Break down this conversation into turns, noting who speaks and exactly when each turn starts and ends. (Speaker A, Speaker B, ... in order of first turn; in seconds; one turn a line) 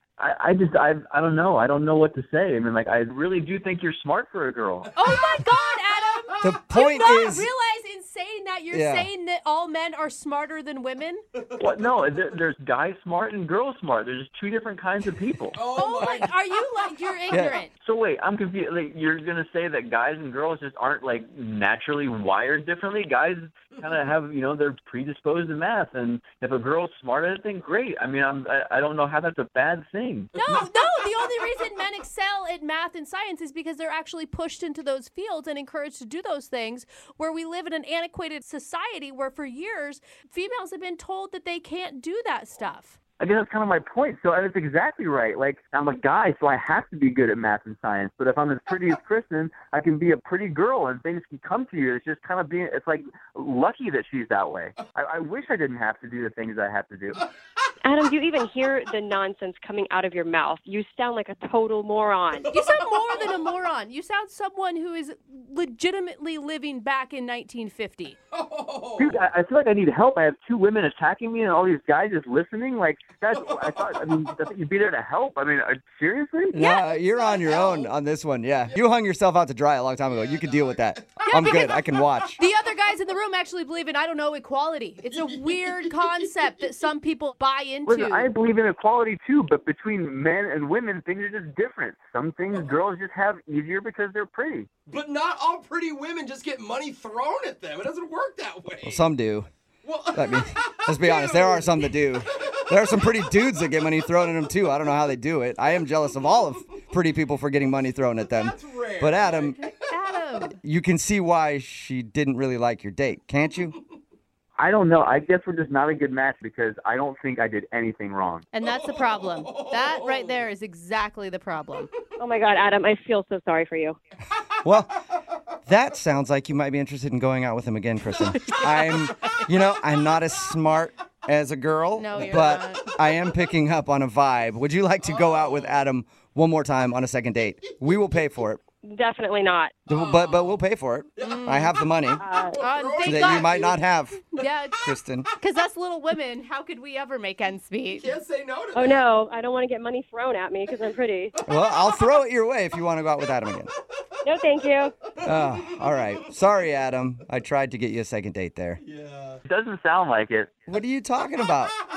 Speaker A: 0.2-4.9
Speaker B: 4.9-11.2
Speaker C: 6.4-7.5
Speaker C: 8.7-9.1
Speaker D: 11.4-11.9
Speaker A: 11.6-15.6
Speaker D: 15.5-16.3
Speaker B: 15.7-17.7
Speaker C: 17.3-17.6
Speaker A: 17.8-30.3
Speaker B: 30.3-43.0
Speaker D: 30.4-31.2
Speaker A: 43.2-57.2
Speaker E: 57.8-62.5
Speaker B: 62.5-68.2
Speaker D: 62.5-63.3
Speaker D: 68.3-69.2
Speaker A: 69.0-76.5
Speaker D: 73.3-74.2
Speaker C: 76.5-82.4
Speaker B: 76.5-77.9
Speaker D: 80.1-81.3
Speaker B: 81.2-81.8
Speaker B: 82.4-88.3
Speaker D: 85.2-85.8
Speaker A: 87.9-94.7
Speaker D: 94.9-99.0
Speaker C: 98.8-99.5
Speaker D: 99.8-103.0
Speaker C: 100.1-109.5
Speaker D: 108.3-109.7
Speaker B: 109.6-110.6
Speaker C: 110.6-113.8
Speaker A: 114.6-118.5
Speaker B: 118.5-121.9
Speaker D: 118.6-120.4
Speaker E: 122.2-124.0
Speaker C: 124.6-124.9
Speaker C: 125.7-138.6
Speaker B: 128.2-129.1
Speaker B: 131.9-133.0
Speaker D: 135.0-135.8
Speaker D: 137.6-138.2
Speaker E: 138.8-139.7
Speaker D: 139.9-140.6
Speaker C: 139.9-142.2
Speaker D: 141.2-141.5
Speaker B: 141.2-141.7
Speaker E: 142.2-142.6
Speaker D: 142.5-143.8
Speaker B: 142.6-143.8
Speaker C: 143.0-144.2
Speaker B: 144.3-148.1
Speaker C: 144.8-145.3
Speaker D: 147.8-149.0
Speaker E: 148.7-151.3
Speaker C: 151.4-153.7
Speaker E: 154.2-154.9
Speaker C: 155.2-158.8
Speaker D: 158.8-159.4
Speaker A: 159.4-160.5
Speaker C: 160.7-161.7